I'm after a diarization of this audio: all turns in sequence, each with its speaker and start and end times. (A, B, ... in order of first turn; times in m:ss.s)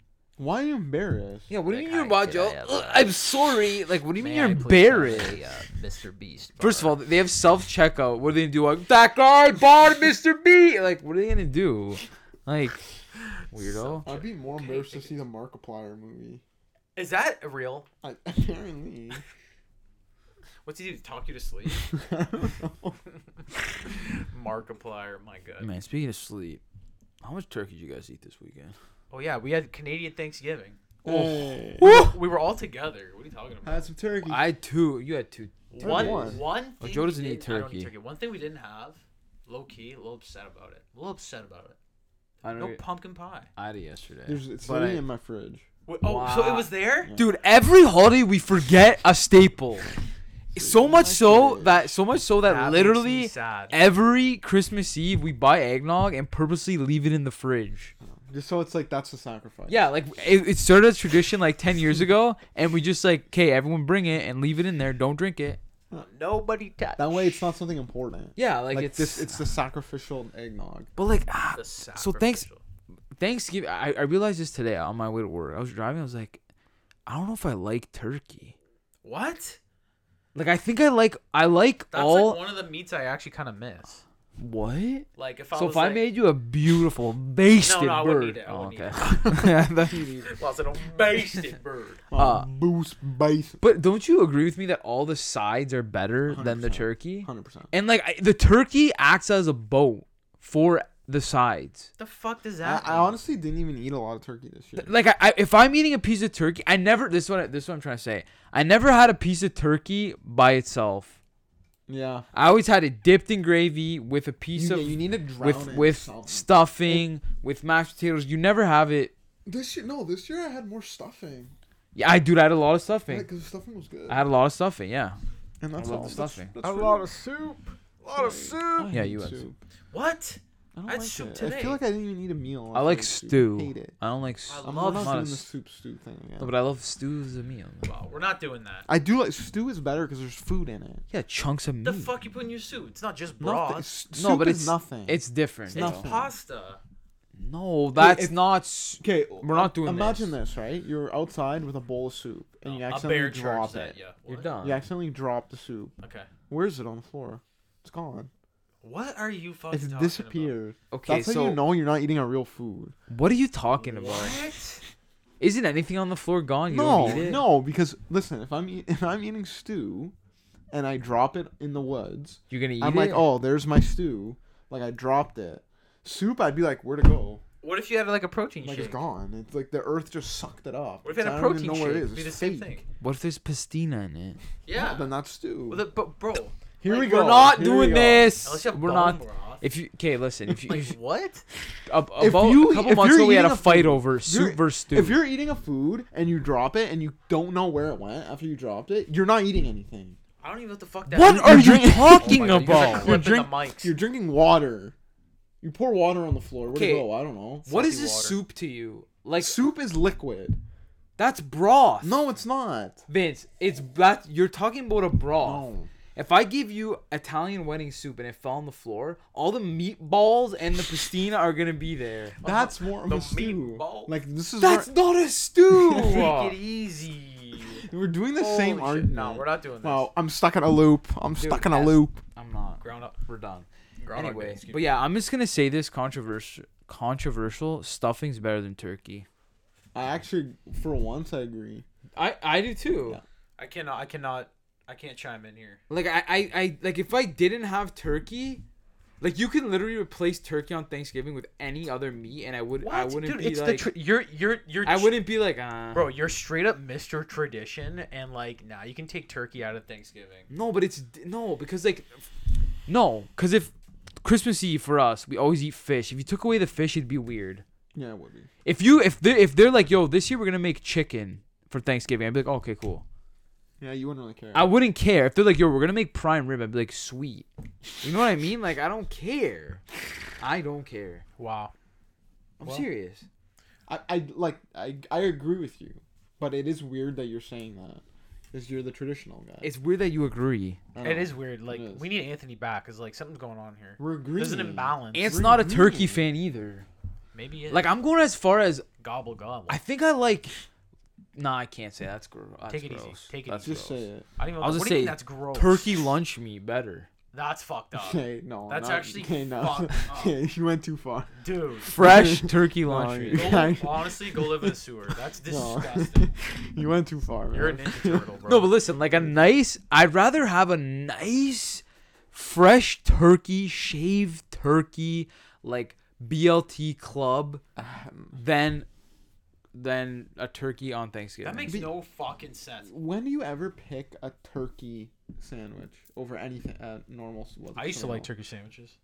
0:00.4-0:01.5 A
0:01.5-0:05.6 B
0:01.7-0:03.1 C
0:04.2-0:07.0 C
0:06.6-0:12.8 B
0:13.5-0:14.1 B
0:13.5-0:15.2 C
0:14.0-0:16.4 A
0:17.0-0:17.9 C
0:18.0-0:19.2 A
0:20.6-0:21.9 C
0:21.9-0:23.0 A
0:23.8-0:25.7 C
0:25.6-0:26.6 B
0:27.2-0:28.8 B
0:29.1-0:30.8 C
0:31.0-0:32.0 A
0:31.1-0:32.2 B
0:31.8-0:33.9 C
0:33.6-0:34.4 A
0:34.2-0:37.9 B
0:35.7-0:41.8 C
0:35.8-0:36.5 A
0:42.4-0:42.8 B
0:42.5-0:43.5 C
0:43.6-0:45.0 B
0:44.3-0:45.6 A
0:45.9-0:47.1 C
0:46.0-0:49.9 B
0:47.0-0:47.3 A
0:50.5-0:58.0 B
0:50.6-0:52.0 A
0:52.4-0:53.8 C
0:58.0-0:59.8 A
0:59.7-1:05.6 B
1:06.0-1:07.4 C
1:07.0-1:10.9 A
1:08.4-1:09.4 B
1:11.0-1:12.5 B
1:11.5-1:12.6 C
1:13.2-1:16.4 B
1:17.1-1:18.6 B
1:19.0-1:19.6 C
1:20.4-1:22.4 B
1:21.9-1:24.0 C
1:24.4-1:30.3 B
1:25.2-1:26.1 C
1:27.6-1:32.0 C
1:29.2-1:29.5 A
1:32.1-1:33.6 A
1:32.2-1:32.5 B
1:33.6-1:41.9 B
1:36.3-1:37.7 A
1:42.0-1:43.2 C
1:42.6-1:44.9 A
1:44.8-1:51.2 B
1:51.9-1:52.3 A
1:52.3-1:59.1 B
1:54.6-1:57.1 A
1:59.4-2:01.5 A
2:02.0-2:03.3 B
2:03.1-2:04.3 A
2:04.1-2:05.2 B
2:05.6-2:07.1 A
2:05.8-2:06.5 B
2:06.6-2:08.9 C
2:08.0-2:09.6 A
2:08.9-2:09.5 B
2:09.9-2:11.8 C
2:10.8-2:14.0 A
2:12.7-2:15.5 B
2:14.5-2:15.3 C
2:14.6-2:16.6 A
2:16.4-2:17.9 B
2:17.8-2:18.9 C
2:18.9-2:21.0 A
2:21.1-2:22.1 B
2:21.8-2:23.9 C
2:23.4-2:26.4 A
2:24.1-2:26.1 B
2:25.7-2:26.8 C
2:27.4-2:30.4 B
2:28.0-2:34.0 A
2:32.6-2:34.6 C
2:34.3-2:34.8 B
2:34.6-2:35.9 A
2:36.0-2:36.3 C
2:36.5-2:38.3 A
2:38.8-2:40.6 C
2:39.7-2:43.0 A
2:40.9-2:41.6 B
2:43.1-2:44.4 B
2:43.8-2:44.8 C
2:45.4-2:47.4 B
2:46.7-2:50.1 A
2:50.7-2:57.4 A
2:52.5-2:53.3 B
2:57.6-2:59.0 C
2:58.6-3:02.8 A
3:01.0-3:02.8 C
3:03.0-3:04.4 B
3:04.6-3:05.1 C
3:04.7-3:05.8 A
3:05.7-3:06.6 C
3:06.8-3:08.4 A
3:06.9-3:11.0 B
3:08.4-3:09.6 C
3:10.7-3:11.4 C
3:11.9-3:15.2 B
3:12.2-3:20.2 A
3:20.4-3:23.9 C
3:21.1-3:23.2 B
3:21.2-3:25.0 A
3:25.6-3:27.7 A
3:26.7-3:27.1 B
3:27.6-3:28.4 C
3:27.7-3:29.6 B
3:29.4-3:30.6 A
3:31.2-3:32.3 B
3:32.0-3:33.0 A
3:33.1-3:42.4 B
3:35.4-3:35.9 A
3:42.4-3:44.1 C
3:42.4-3:44.9 A
3:44.6-3:46.6 B
3:45.7-3:46.4 A
3:46.0-3:50.1 C
3:47.9-3:52.2 A
3:51.4-3:59.3 B
3:52.8-3:53.2 C
3:54.0-3:55.0 C
3:59.9-4:01.8 A
4:02.2-4:03.2 B
4:03.6-4:05.8 C
4:05.9-4:08.6 B
4:09.2-4:13.9 B
4:12.8-4:15.4 C
4:14.8-4:16.2 B
4:15.9-4:20.5 C
4:20.5-4:22.3 B
4:22.9-4:27.6 B
4:27.9-4:28.5 A
4:28.6-4:33.0 B
4:33.8-4:34.7 A
4:34.5-4:37.5 B
4:38.0-4:39.8 B
4:40.4-4:41.2 B
4:41.4-4:41.7 C
4:42.6-4:42.8 A
4:42.6-4:43.3 B
4:43.9-4:49.7 A
4:49.6-4:50.8 B
4:50.9-4:52.1 A
4:51.0-4:55.3 C
4:54.0-4:56.2 A
4:55.1-4:56.9 B
4:57.3-4:57.9 C
4:57.7-4:58.8 B
4:59.0-4:59.8 C
4:59.7-5:00.6 B
5:01.4-5:03.9 B
5:02.7-5:06.1 C
5:03.6-5:04.3 A
5:04.6-5:07.1 B
5:07.3-5:10.4 C
5:08.0-5:11.4 A
5:11.4-5:12.0 C
5:11.8-5:13.7 B
5:11.9-5:14.8 A
5:13.3-5:16.3 C
5:15.4-5:18.3 A
5:17.5-5:18.7 C
5:18.4-5:27.6 B
5:27.8-5:28.4 A
5:28.3-5:28.9 B
5:29.7-5:31.8 B
5:31.4-5:32.9 C
5:31.7-5:31.9 A
5:32.8-5:38.3 A
5:37.8-5:39.0 C